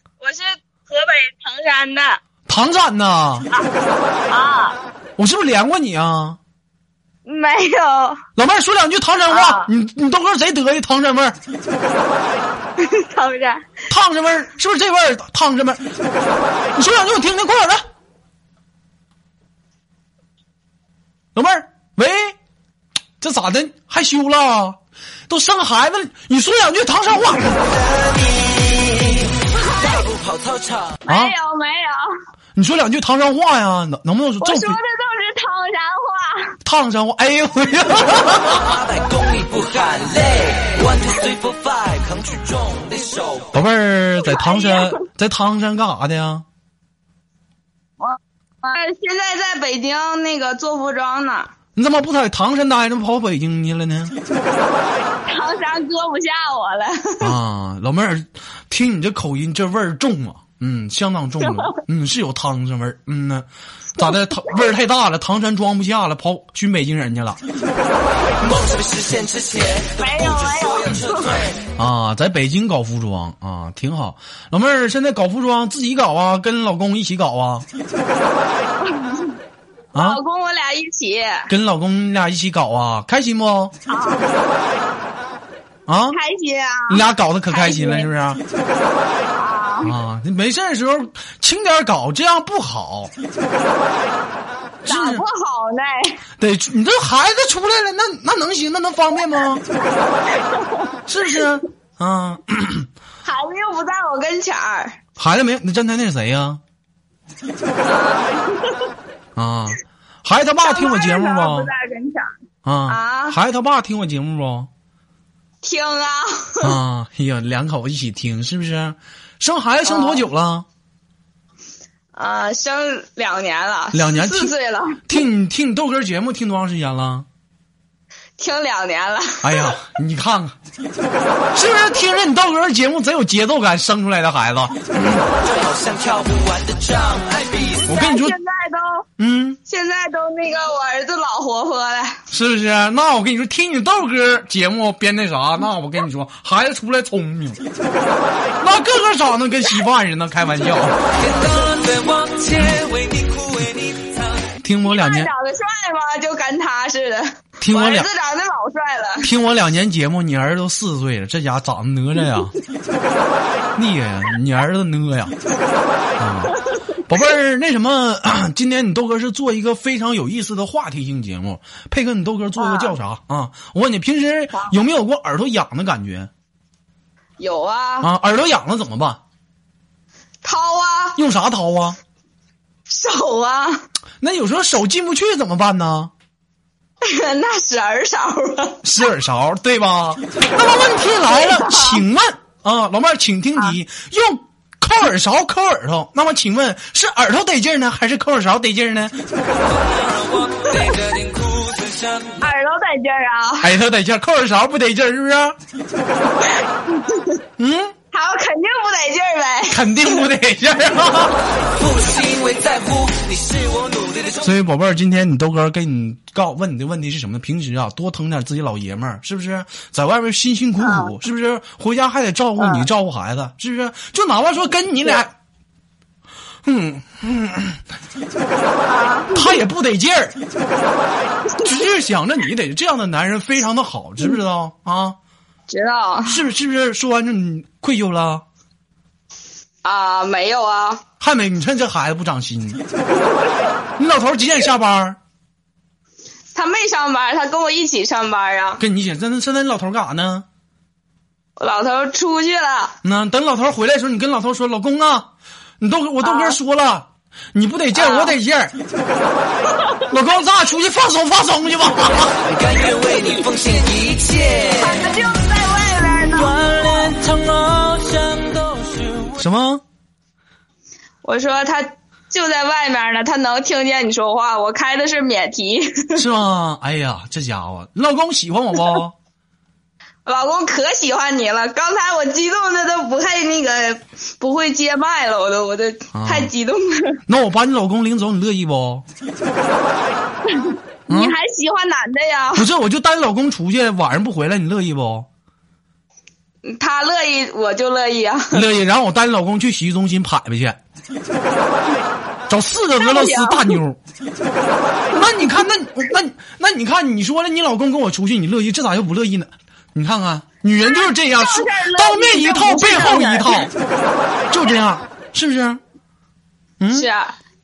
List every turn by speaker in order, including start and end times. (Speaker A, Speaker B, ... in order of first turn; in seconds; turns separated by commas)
Speaker A: 0.2-2.2, Speaker B: 2.5-3.5, Speaker A: 4.3-4.8, Speaker B: 5.2-6.4, Speaker A: 7.3-8.2, Speaker B: 8.4-11.4, Speaker A: 9.3-9.7, Speaker A: 12.8-13.7, Speaker B: 13.9-15.8, Speaker B: 16.8-17.8, Speaker B: 21.4-22.4, Speaker B: 23.2-27.7, Speaker C: 27.8-29.2, Speaker A: 29.5-30.1, Speaker C: 29.9-31.0, Speaker A: 31.1-32.0, Speaker B: 31.1-31.4, Speaker B: 32.6-34.8, Speaker A: 34.4-36.6, Speaker B: 36.6-38.9, Speaker C: 38.7-43.5, Speaker B: 43.5-46.5, Speaker A: 44.2-45.0, Speaker A: 48.0-51.5, Speaker B: 51.8-54.2, Speaker A: 55.3-57.3, Speaker B: 57.2-67.4, Speaker C: 68.4-71.1, Speaker A: 70.0-71.4, Speaker B: 71.8-77.7, Speaker A: 78.8-79.3, Speaker B: 79.9-80.2, Speaker A: 80.0-81.5, Speaker B: 81.5-83.7, Speaker A: 83.9-84.3, Speaker B: 85.9-86.2, Speaker A: 86.1-88.1, Speaker B: 86.9-88.4, Speaker A: 89.3-89.9, Speaker B: 89.8-93.1, Speaker B: 94.8-95.2, Speaker A: 94.9-96.2, Speaker B: 96.4-99.6, Speaker A: 100.1-101.5, Speaker B: 101.1-102.9, Speaker A: 103.2-105.0, Speaker B: 105.2-106.6, Speaker A: 107.8-108.9, Speaker B: 109.4-111.7, Speaker A: 110.6-112.3, Speaker B: 112.7-114.7, Speaker A: 112.9-113.4, Speaker A: 115.6-116.8, Speaker B: 116.6-120.7, Speaker A: 119.9-120.2, Speaker A: 122.2-125.1, Speaker B: 123.9-124.5, Speaker B: 125.1-127.3, Speaker A: 128.4-129.8, Speaker B: 129.4-130.6, Speaker B: 131.5-135.4, Speaker C: 135.5-137.8, Speaker A: 137.8-139.1, Speaker B: 137.9-138.4, Speaker B: 139.2-139.6, Speaker A: 139.7-142.2, Speaker B: 142.3-147.6, Speaker B: 148.6-151.0, Speaker C: 151.2-154.5, Speaker B: 154.6-155.3, Speaker A: 154.8-159.3, Speaker B: 157.6-158.1, Speaker B: 159.2-162.5, Speaker B: 163.8-165.3, Speaker B: 166.2-166.6, Speaker B: 167.1-176.3, Speaker A: 172.6-172.9, Speaker A: 177.4-178.1, Speaker B: 178.0-179.2, Speaker A: 180.4-181.2, Speaker B: 181.2-182.0, Speaker A: 182.9-183.8, Speaker B: 184.2-186.1, Speaker A: 187.0-188.8, Speaker B: 188.8-199.2, Speaker A: 191.3-192.0, Speaker C: 199.6-202.5, Speaker A: 202.4-203.7, Speaker B: 203.6-205.6, Speaker A: 206.4-207.4, Speaker B: 207.6-207.9, Speaker A: 208.1-210.2, Speaker B: 209.7-211.4, Speaker C: 211.7-214.4, Speaker B: 214.4-225.3, Speaker A: 220.8-221.1, Speaker A: 222.6-222.8, Speaker B: 226.7-227.8, Speaker A: 228.9-229.6, Speaker B: 229.3-230.4, Speaker A: 231.5-231.8, Speaker B: 231.6-235.2, Speaker A: 235.7-236.4, Speaker B: 236.2-238.4, Speaker A: 239.8-241.0, Speaker B: 241.2-242.8, Speaker B: 244.0-245.2, Speaker A: 246.5-248.8, Speaker B: 248.8-250.4, Speaker A: 251.6-253.0, Speaker B: 253.0-258.8, Speaker A: 256.2-256.6, Speaker A: 258.0-258.3, Speaker A: 259.7-260.0, Speaker B: 260.1-262.4, Speaker C: 262.4-265.1, Speaker A: 264.8-266.5, Speaker C: 266.3-269.5, Speaker B: 269.4-269.8, Speaker A: 271.2-276.2, Speaker B: 276.1-279.1, Speaker A: 280.3-287.2, Speaker B: 286.1-286.5, Speaker B: 287.3-289.1, Speaker A: 290.5-292.7, Speaker B: 291.1-291.4, Speaker B: 292.6-295.3, Speaker A: 296.6-298.6, Speaker B: 298.5-300.8, Speaker B: 302.5-304.0, Speaker A: 303.0-303.8, Speaker B: 305.1-313.7, Speaker A: 310.9-313.6, Speaker B: 314.5-315.8, Speaker B: 316.8-317.1, Speaker A: 316.9-317.3